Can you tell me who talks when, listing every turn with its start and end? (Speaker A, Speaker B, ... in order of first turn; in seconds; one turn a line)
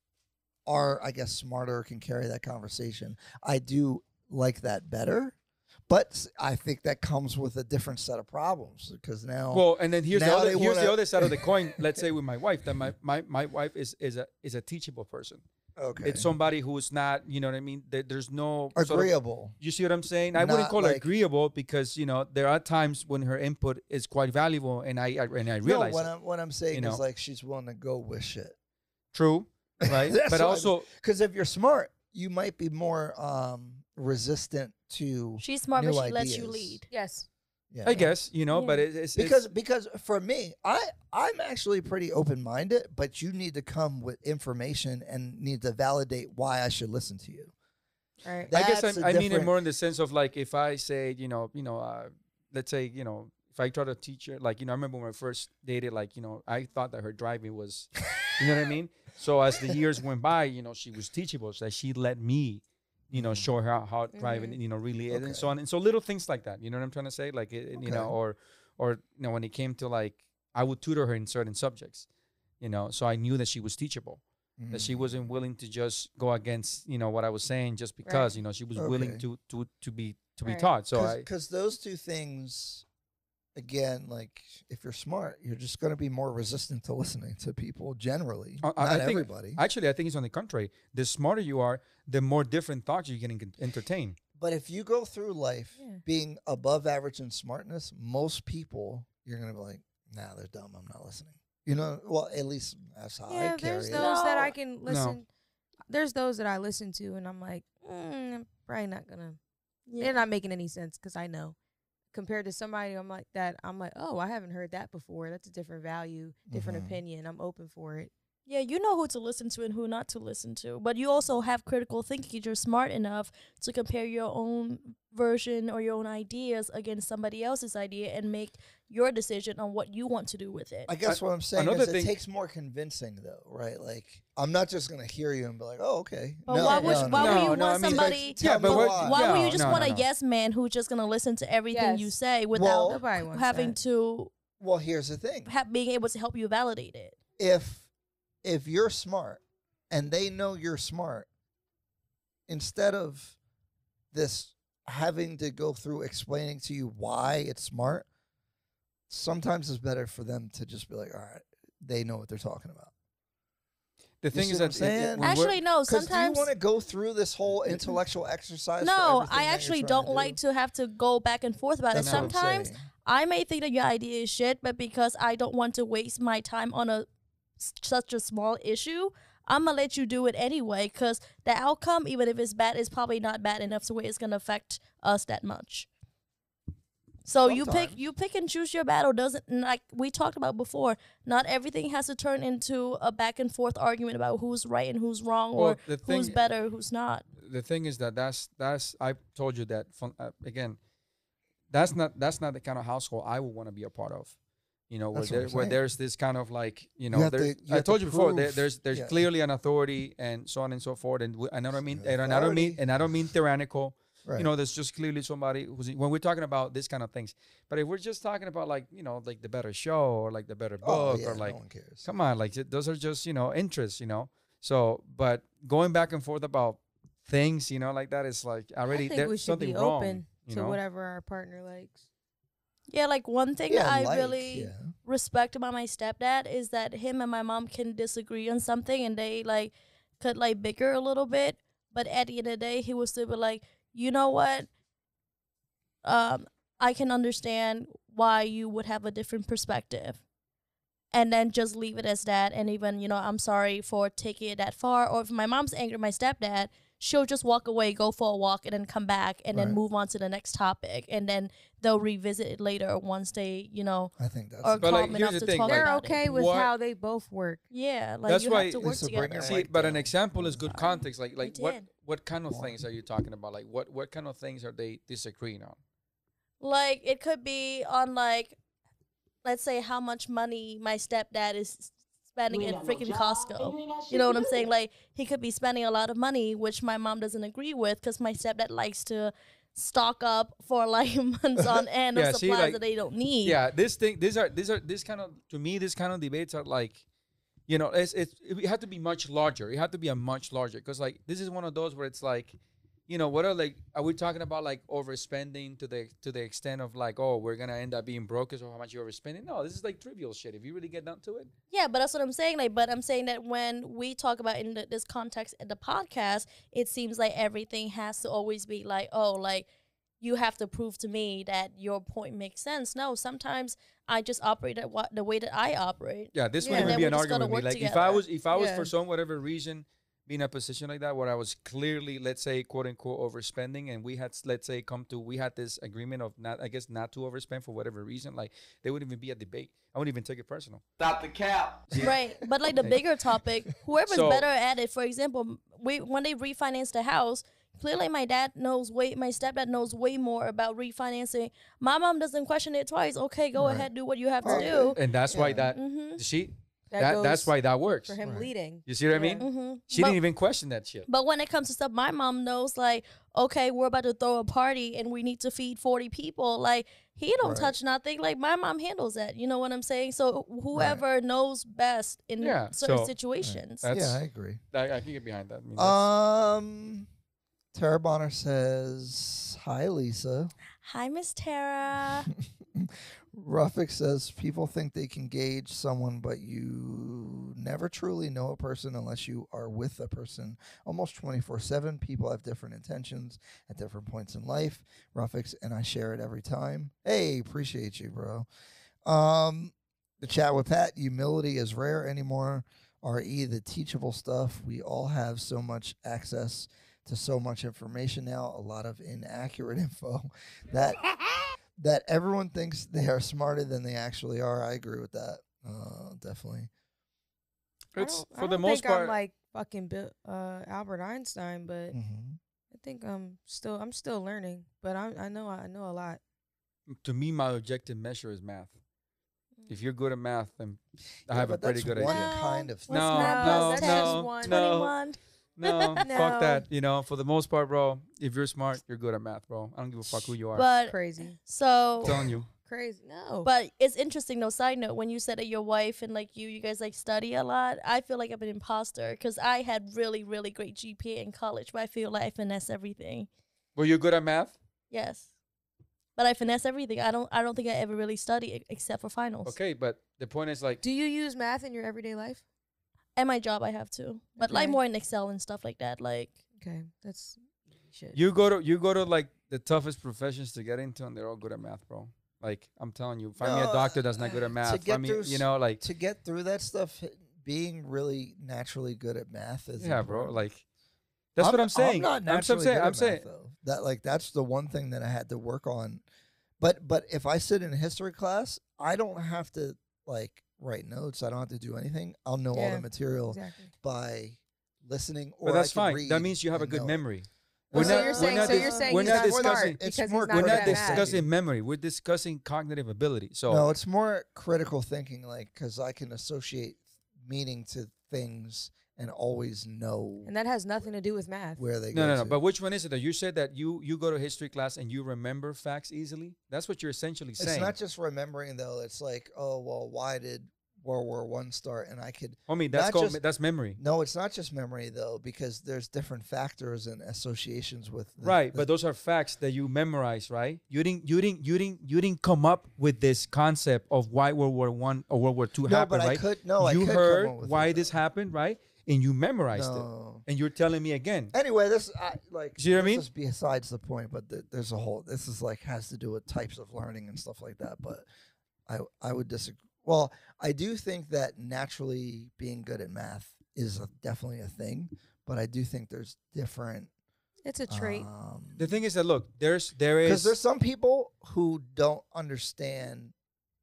Speaker A: 0.7-5.4
Speaker A: 5.9-12.0
Speaker B: 9.5-15.4
Speaker A: 15.8-16.3
Speaker B: 16.0-26.1
Speaker A: 18.8-19.5
Speaker A: 20.3-21.1
Speaker A: 25.6-28.5
Speaker B: 26.7-27.0
Speaker B: 29.1-30.9
Speaker A: 29.8-36.8
Speaker C: 35.4-36.9
Speaker D: 36.9-37.3
Speaker A: 37.7-38.1
Speaker B: 37.8-39.4
Speaker C: 38.5-38.8
Speaker A: 39.1-47.5
Speaker D: 48.2-48.5
Speaker A: 48.5-49.5
Speaker B: 48.5-72.1
Speaker A: 63.1-63.5
Speaker D: 64.1-64.6
Speaker A: 65.1-65.5
Speaker A: 67.8-68.1
Speaker B: 72.6-81.2
Speaker A: 74.6-75.2
Speaker D: 78.0-78.3
Speaker A: 78.8-79.2
Speaker D: 80.4-80.7
Speaker A: 80.9-82.8
Speaker A: 83.5-89.6
Speaker B: 88.6-94.2
Speaker A: 94.3-104.4
Speaker D: 103.3-105.2
Speaker C: 103.9-104.5
Speaker B: 104.9-105.2
Speaker D: 105.9-109.4
Speaker C: 109.9-110.2
Speaker D: 110.0-111.5
Speaker D: 112.1-118.1
Speaker A: 116.5-117.0
Speaker C: 118.5-130.9
Speaker A: 130.9-139.9
Speaker B: 131.1-132.1
Speaker C: 136.5-144.3
Speaker D: 136.5-137.2
Speaker B: 137.1-140.1
Speaker D: 141.7-142.2
Speaker A: 142.5-143.0
Speaker D: 142.8-143.8
Speaker A: 144.6-145.5
Speaker C: 145.4-147.2
Speaker A: 147.4-147.9
Speaker A: 148.4-151.3
Speaker A: 152.5-153.4
Speaker A: 154.1-158.1
Speaker A: 159.1-162.9
Speaker B: 164.2-165.6
Speaker A: 164.3-170.4
Speaker C: 165.2-166.5
Speaker C: 168.8-177.1
Speaker A: 171.9-172.9
Speaker B: 171.9-172.4
Speaker C: 177.6-185.9
Speaker C: 187.2-197.2
Speaker A: 187.4-188.0
Speaker B: 195.5-196.4
Speaker B: 197.3-200.8
Speaker B: 201.7-204.3
Speaker B: 204.9-230.8
Speaker A: 205.1-205.8
Speaker A: 207.1-209.2
Speaker A: 211.9-212.8
Speaker A: 220.8-222.1
Speaker D: 228.9-232.0
Speaker C: 232.9-244.7
Speaker A: 233.7-234.9
Speaker C: 246.0-250.2
Speaker C: 251.1-266.2
Speaker A: 259.5-259.8
Speaker A: 264.2-265.3
Speaker B: 264.8-266.7
Speaker D: 265.6-267.6
Speaker C: 267.7-270.0
Speaker B: 268.3-275.8
Speaker A: 268.8-270.7
Speaker C: 270.7-271.9
Speaker A: 272.5-272.8
Speaker C: 276.6-278.6
Speaker C: 279.4-293.6
Speaker E: 282.5-284.7
Speaker B: 292.1-292.8
Speaker B: 293.4-297.0
Speaker B: 297.7-302.6
Speaker B: 303.1-311.5
Speaker C: 311.7-319.7
Speaker C: 320.2-328.2
Speaker B: 326.3-340.8
Speaker D: 326.6-327.0
Speaker D: 328.5-328.9
Speaker E: 341.0-342.1
Speaker C: 342.0-355.0
Speaker B: 344.1-344.4
Speaker A: 353.5-353.9
Speaker A: 354.4-355.7
Speaker B: 354.9-358.1
Speaker C: 355.7-356.2
Speaker D: 356.9-359.4
Speaker A: 358.2-358.5
Speaker B: 358.8-361.1
Speaker C: 359.4-360.2
Speaker C: 361.1-373.8
Speaker A: 367.4-367.8
Speaker A: 370.7-371.0
Speaker B: 372.4-373.1
Speaker A: 373.4-374.6
Speaker B: 373.8-374.2
Speaker B: 374.7-376.0
Speaker A: 375.8-377.1
Speaker A: 377.7-380.5
Speaker C: 380.8-382.3
Speaker A: 382.7-398.5
Speaker A: 399.0-411.0
Speaker A: 411.8-416.7
Speaker B: 417.9-419.2
Speaker D: 417.9-422.0
Speaker A: 421.9-422.4
Speaker D: 422.7-426.2
Speaker B: 426.9-428.7
Speaker B: 429.7-432.3
Speaker A: 431.3-433.1
Speaker D: 432.1-434.6
Speaker C: 432.1-436.0
Speaker B: 432.9-434.9
Speaker B: 435.6-440.6
Speaker D: 436.0-436.6
Speaker C: 440.5-442.2
Speaker D: 440.9-441.4
Speaker B: 442.0-442.5
Speaker D: 442.6-443.5
Speaker C: 443.4-453.3
Speaker B: 453.8-454.5
Speaker C: 454.9-455.3
Speaker C: 456.2-459.5
Speaker B: 459.4-460.8
Speaker D: 460.8-462.4
Speaker C: 463.1-466.3
Speaker D: 464.4-464.8
Speaker D: 466.6-468.2
Speaker B: 468.1-475.8
Speaker A: 473.4-480.4
Speaker B: 479.8-480.6
Speaker B: 481.4-483.2
Speaker A: 481.4-486.0
Speaker A: 486.6-497.0
Speaker D: 492.5-493.7
Speaker B: 495.4-499.8
Speaker A: 497.7-501.3
Speaker D: 497.7-501.1
Speaker C: 497.9-498.9
Speaker B: 500.3-503.7
Speaker A: 503.5-510.3
Speaker D: 510.2-511.6
Speaker A: 511.6-512.4
Speaker B: 511.9-517.7
Speaker A: 517.4-523.2
Speaker B: 522.5-523.8
Speaker A: 523.8-528.7
Speaker B: 528.2-541.3
Speaker A: 535.6-537.9
Speaker A: 539.5-540.2
Speaker A: 541.3-548.0
Speaker B: 542.6-543.0
Speaker A: 548.7-556.9
Speaker D: 557.4-558.1
Speaker A: 557.7-558.7
Speaker B: 558.6-560.4
Speaker A: 560.0-563.1